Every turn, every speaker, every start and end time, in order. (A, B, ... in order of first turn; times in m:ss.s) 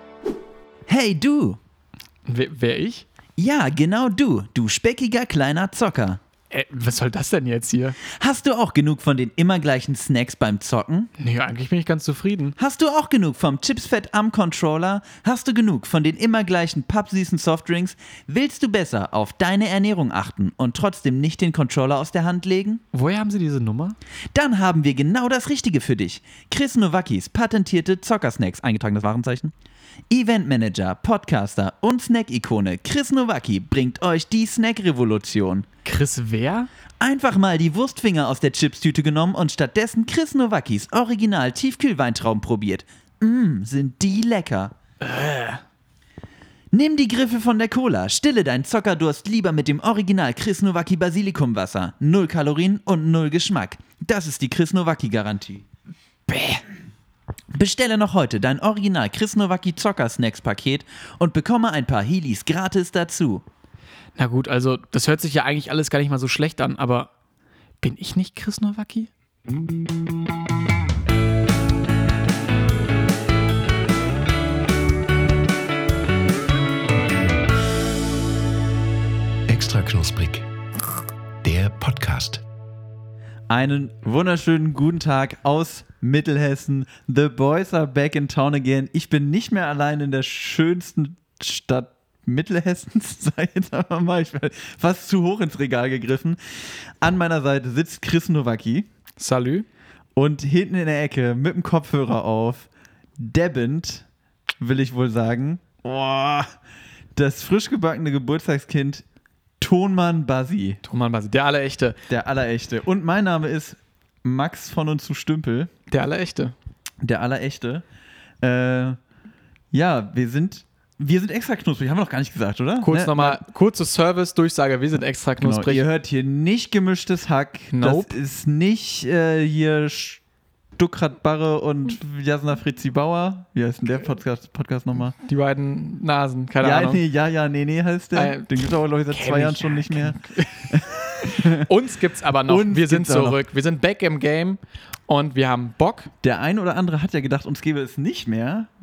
0:00.9-0:01.6 A
0:02.3-0:03.0 B
0:03.4-0:06.2 A
0:06.5-0:08.0 B
0:08.0-0:11.1 A
0:11.2-0:12.6 B
0:12.6-0:22.8 A
0:22.9-0:24.0 B
0:24.3-0:29.5 A
0:30.1-0:35.7 A
0:35.8-0:36.7 B
0:37.0-0:44.7 A
0:45.0-0:45.6 B
0:46.7-0:55.6 A
0:56.3-0:56.6 B
0:57.5-1:03.4 A
1:04.2-1:07.1 B
1:07.8-1:09.1 B
1:19.5-1:20.4 C
1:21.4-1:22.4 C
1:23.5-1:38.9 A
1:39.2-1:39.7 B
1:40.2-1:44.0 A
1:44.6-1:46.5 A
1:47.1-1:49.0 A
1:49.6-1:50.8 A
1:50.8-1:52.0 B
1:52.1-1:55.7 A
1:55.9-1:56.6 B
1:57.0-1:57.8 A
1:58.4-1:59.0 A
1:59.7-2:03.4 A
2:02.8-2:05.8 B
2:05.4-2:10.2 A
2:07.7-2:08.1 B
2:10.8-2:15.2 A
2:15.2-2:17.0 B
2:16.6-2:21.7 A
2:18.1-2:26.1 B
2:22.5-2:23.4 A
2:26.2-2:28.7 A